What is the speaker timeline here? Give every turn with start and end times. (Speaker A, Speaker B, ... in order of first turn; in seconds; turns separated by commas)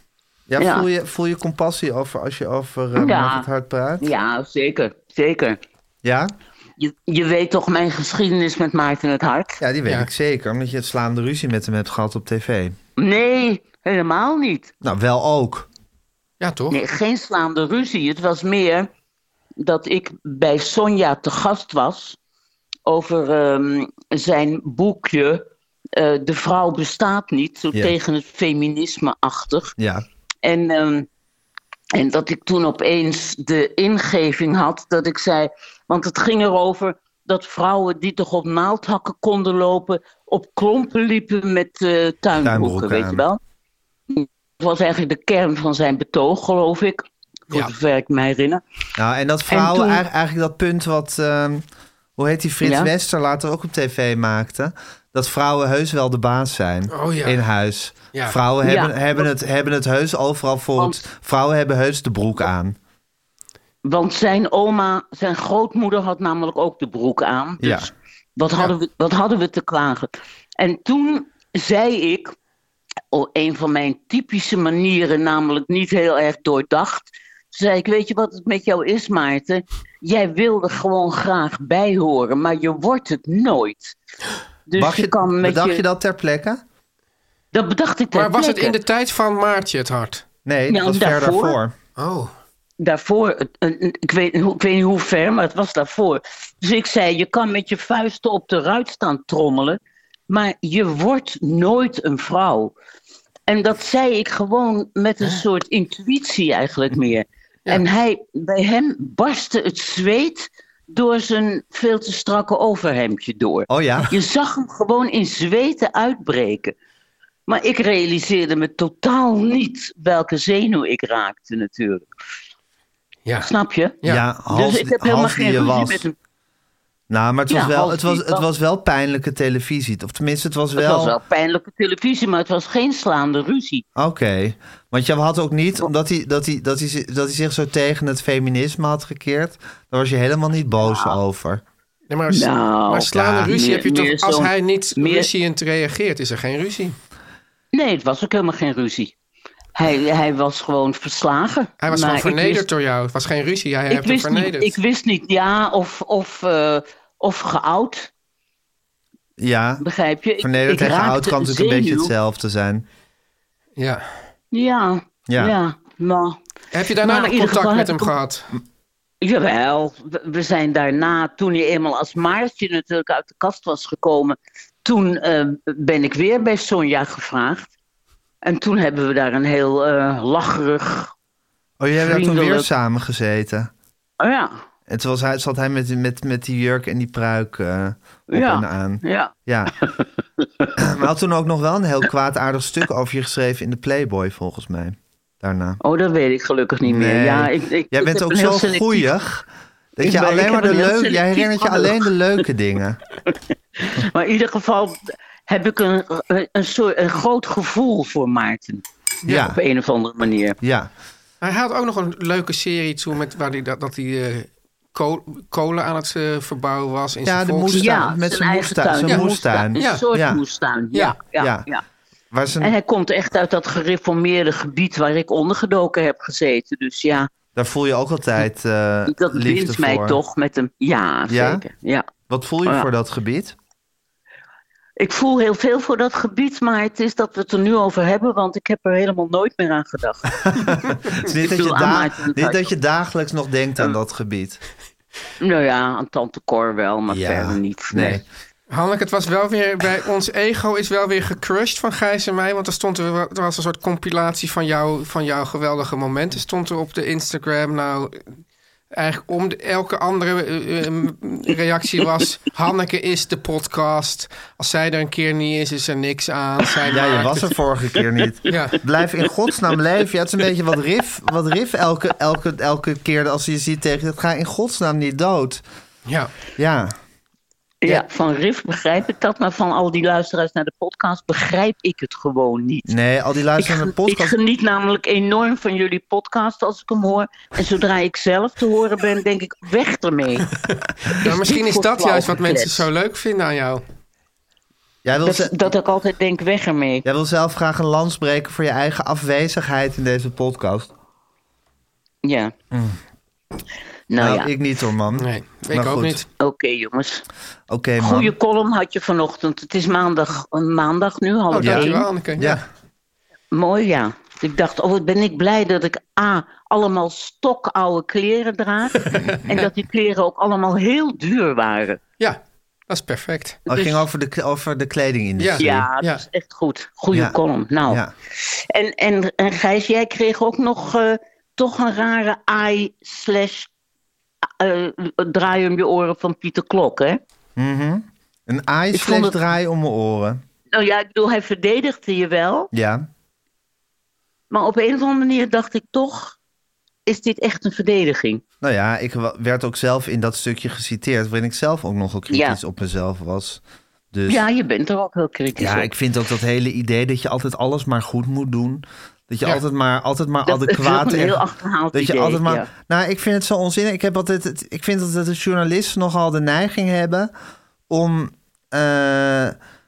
Speaker A: 0.5-4.1, Speaker B: 0.6-0.9, Speaker B: 3.0-3.5, Speaker B: 4.0-5.6, Speaker A: 6.0-6.3, Speaker B: 6.8-9.6, Speaker A: 9.6-12.8, Speaker B: 13.0-14.7, Speaker A: 14.8-15.7, Speaker C: 16.4-16.8, Speaker B: 16.7-18.9, Speaker B: 19.6-22.2, Speaker B: 22.9-29.7, Speaker A: 29.8-30.1, Speaker B: 30.4-31.1, Speaker B: 31.9-43.4, Speaker A: 42.4-43.2, Speaker B: 44.1-48.6, Speaker A: 49.0-51.6, Speaker B: 49.5-50.0, Speaker A: 52.2-62.8, Speaker B: 52.6-52.9, Speaker C: 56.9-57.4, Speaker B: 58.6-59.3, Speaker B: 63.8-72.3, Speaker A: 67.6-67.9, Speaker B: 73.1-84.0, Speaker B: 84.7-85.8, Speaker A: 84.8-86.6, Speaker B: 87.5-88.8, Speaker C: 88.1-90.2, Speaker A: 90.5-91.8, Speaker B: 90.7-91.6, Speaker C: 92.0-92.3, Speaker B: 92.8-102.7, Speaker B: 103.5-116.8, Speaker A: 113.7-114.1, Speaker B: 117.5-122.1, Speaker B: 123.4-126.2, Speaker A: 124.0-126.0, Speaker A: 127.1-131.2, Speaker B: 127.5-128.4, Speaker B: 130.8-133.8, Speaker A: 134.0-141.6, Speaker B: 140.8-141.2, Speaker C: 142.1-147.0, Speaker B: 142.3-145.3, Speaker A: 143.1-143.5, Speaker B: 147.7-149.1, Speaker B: 149.8-152.7, Speaker C: 151.8-154.8, Speaker B: 153.9-158.1, Speaker A: 159.4-159.8, Speaker B: 159.8-162.1, Speaker A: 160.4-162.9, Speaker C: 163.8-164.1, Speaker B: 164.5-166.4, Speaker A: 165.3-165.5, Speaker C: 166.7-168.5, Speaker B: 167.0-168.1, Speaker B: 169.2-177.7, Speaker B: 178.4-181.1, Speaker A: 181.8-183.7, Speaker B: 182.0-182.7, Speaker B: 184.2-184.6, Speaker A: 184.9-189.7, Speaker B: 188.3-189.9, Speaker A: 190.8-195.8, Speaker B: 195.8-199.1, Speaker A: 196.8-203.0, Speaker B: 200.0-202.1, Speaker B: 203.8-210.6, Speaker A: 209.3-209.6, Speaker A: 210.6-210.9, Speaker C: 211.4-218.0, Speaker A: 217.2-220.4, Speaker B: 217.7-221.8, Speaker C: 219.1-220.1, Speaker A: 221.4-221.7, Speaker A: 222.3-222.8, Speaker B: 222.6-227.3, Speaker A: 227.6-230.2, Speaker B: 229.1-232.1, Speaker A: 231.3-231.7, Speaker A: 232.3-233.6, Speaker B: 235.0-242.7, Speaker A: 240.5-244.6, Speaker B: 245.4-248.2, Speaker A: 247.1-248.2, Speaker C: 248.7-258.3, Speaker C: 258.9-267.5, Speaker A: 266.9-275.6, Speaker C: 268.5-268.8, Speaker A: 276.6-277.0, Speaker B: 277.8-282.9, Speaker A: 282.9-284.4, Speaker B: 283.6-290.5, Speaker C: 291.1-293.8, Speaker B: 291.1-292.9, Speaker A: 295.0-295.7, Speaker B: 295.2-297.0, Speaker A: 297.0-300.9, Speaker B: 302.2-302.5, Speaker A: 302.7-303.0, Speaker B: 304.1-304.5, Speaker A: 304.2-306.2, Speaker C: 305.1-306.2, Speaker B: 306.3-307.2, Speaker A: 307.7-308.3, Speaker B: 308.0-312.1, Speaker C: 311.5-312.6, Speaker A: 311.6-312.6, Speaker B: 313.5-322.0, Speaker C: 322.2-323.6, Speaker A: 323.7-325.9, Speaker B: 323.7-324.0, Speaker C: 325.4-326.2, Speaker B: 325.6-333.7, Speaker A: 327.9-328.1, Speaker B: 334.6-337.2, Speaker A: 337.6-340.4, Speaker B: 338.9-339.4, Speaker B: 340.7-342.7, Speaker A: 342.7-343.1, Speaker B: 344.5-346.4, Speaker B: 347.1-348.4, Speaker A: 348.6-353.6, Speaker B: 352.3-352.6, Speaker A: 354.1-354.4, Speaker B: 354.3-355.9, Speaker A: 355.6-367.3, Speaker B: 360.5-362.7, Speaker A: 367.9-369.6